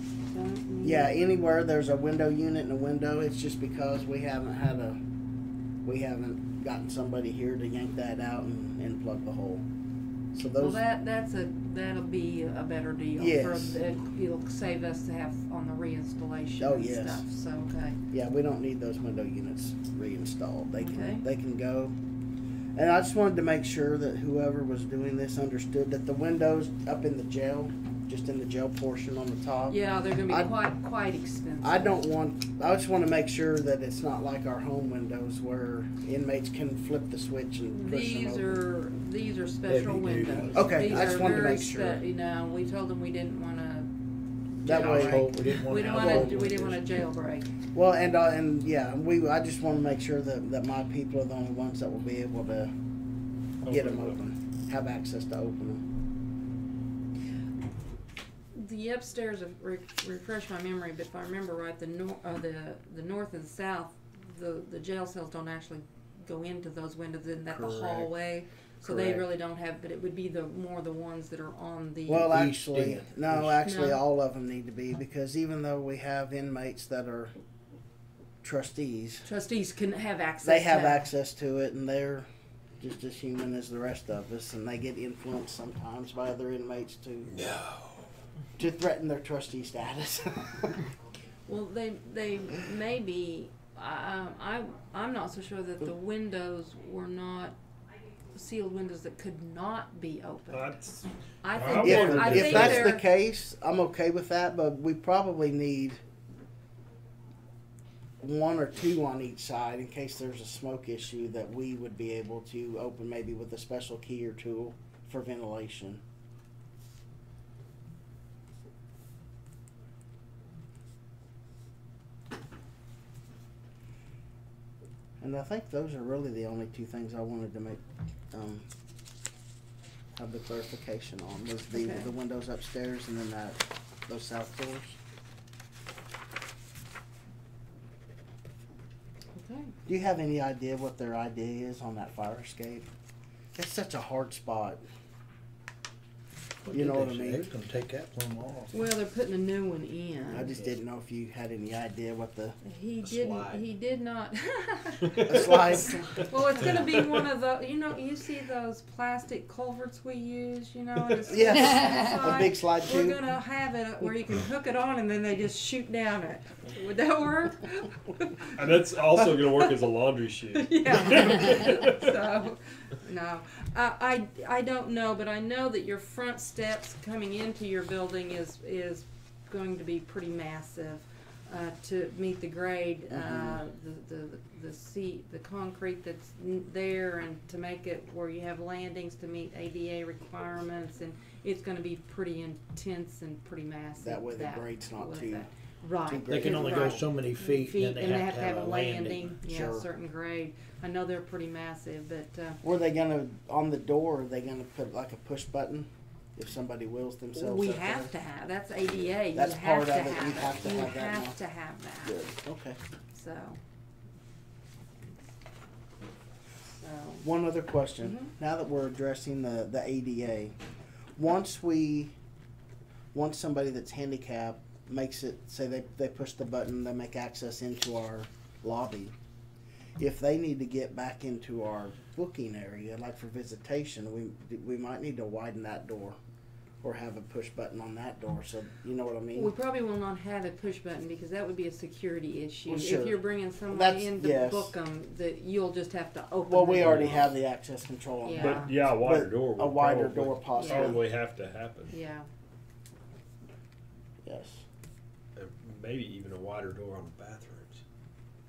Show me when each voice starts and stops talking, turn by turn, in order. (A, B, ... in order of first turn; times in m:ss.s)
0:00.3-0:01.2 A
0:00.8-0:05.0 B
0:05.8-0:09.6 B
0:10.3-0:10.8 B
0:10.6-0:18.0 A
0:13.2-0:13.8 B
0:16.6-0:17.2 B
0:18.1-0:21.9 B
0:20.8-0:21.3 A
0:22.8-0:30.5 B
0:29.7-0:32.0 A
0:31.6-0:38.6 B
0:37.7-0:43.9 A
0:39.7-0:41.3 C
0:40.5-0:42.0 B
0:44.6-0:47.5 A
0:44.6-0:45.3 B
0:44.7-0:46.9 C
0:45.9-0:46.4 B
0:47.7-0:52.7 B
0:53.6-0:54.2 D
0:53.7-0:55.8 B
0:58.5-1:12.4 A
1:07.5-1:08.1 B
1:08.8-1:09.2 B
1:12.1-1:17.3 B
1:12.1-1:13.6 C
1:13.6-1:14.0 A
1:18.4-1:19.3 B
1:19.2-1:21.1 A
1:20.4-1:22.3 B
1:22.8-1:27.3 B
1:27.3-1:28.0 D
1:28.6-1:30.8 B
1:31.5-1:37.6 A
1:38.3-1:40.8 A
1:40.5-1:42.9 D
1:41.4-1:43.0 A
1:41.6-1:46.0 B
1:48.2-1:56.0 B
2:05.2-2:07.8 B
2:08.3-2:08.6 B
2:10.2-2:15.0 B
2:11.7-2:12.1 A
2:19.4-2:19.7 A
2:19.9-2:22.9 B
2:23.6-2:24.8 B
2:26.6-2:28.7 C
2:26.7-2:27.5 B
2:28.7-2:30.6 A
2:30.3-2:32.6 B
2:32.6-2:48.7 A
2:33.0-2:33.6 D
2:35.0-2:35.7 D
2:35.3-2:36.0 B
2:36.5-2:37.2 D
2:41.3-2:43.2 B
2:48.6-2:52.2 D
2:49.4-2:49.7 A
2:50.6-3:22.6 A
3:03.1-3:03.6 B
3:14.0-3:15.5 B
3:16.1-3:17.0 B
3:16.3-3:19.3 C
3:19.4-3:19.9 B
3:22.6-3:28.1 B
3:27.4-3:32.2 A
3:29.3-3:31.4 B
3:32.0-3:32.8 B
3:33.1-3:33.6 A
3:36.8-3:37.2 A
3:37.2-3:40.6 B
3:38.0-3:38.3 A
3:41.2-3:42.1 B
3:43.1-3:49.1 B
3:50.0-3:56.2 B
3:56.8-3:59.5 B
3:59.3-4:07.3 A
4:02.7-4:04.8 B
4:06.5-4:11.0 B
4:06.8-4:07.1 D
4:08.2-4:08.8 A
4:08.4-4:11.9 D
4:10.6-4:11.0 A
4:11.9-4:12.3 A
4:14.2-4:14.6 B
4:15.4-4:17.8 D